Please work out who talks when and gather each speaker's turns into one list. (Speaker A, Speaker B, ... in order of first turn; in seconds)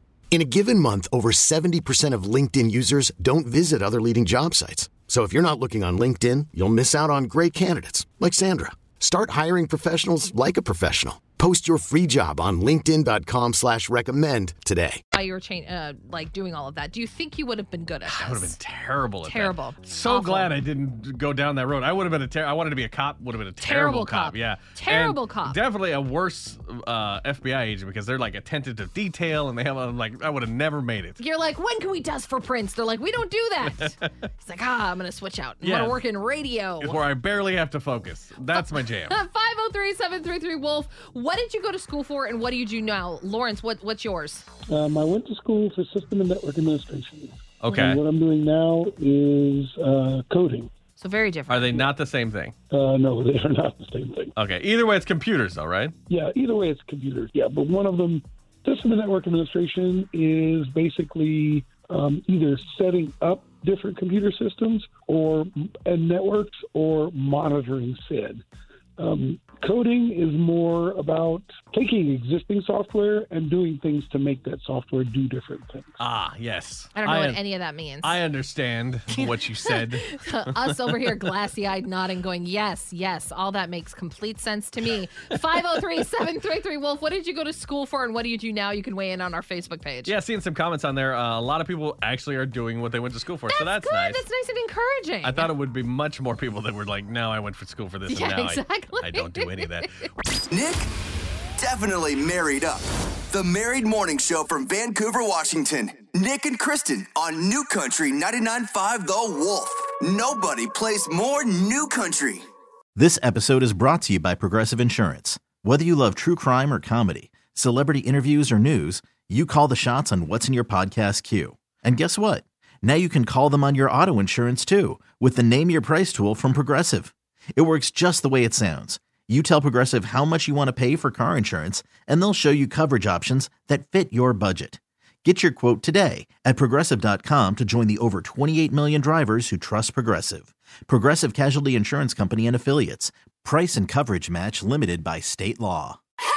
Speaker A: 0.3-15.0
Speaker B: 15.1-18.6, 19.2-20.5, 23.6-25.6, 31.2-37.0, 38.5-44.5, 51.0-51.7, 77.0-78.2, 79.7-90.1, 93.5-95.5, 98.1-100.1
Speaker C: 18.1-31.2, 33.7-34.1, 35.6-36.0, 36.8-39.1, 47.6-48.0, 51.5-52.5, 54.4-55.9, 76.0-77.4, 78.0-81.1, 90.0-94.2, 95.2-99.9
Speaker D: 44.7-50.7, 52.7-54.3, 56.1-68.4, 69.0-76.0
Speaker E: 100.5-100.9, 101.6-112.5
Speaker F: 113.0-146.0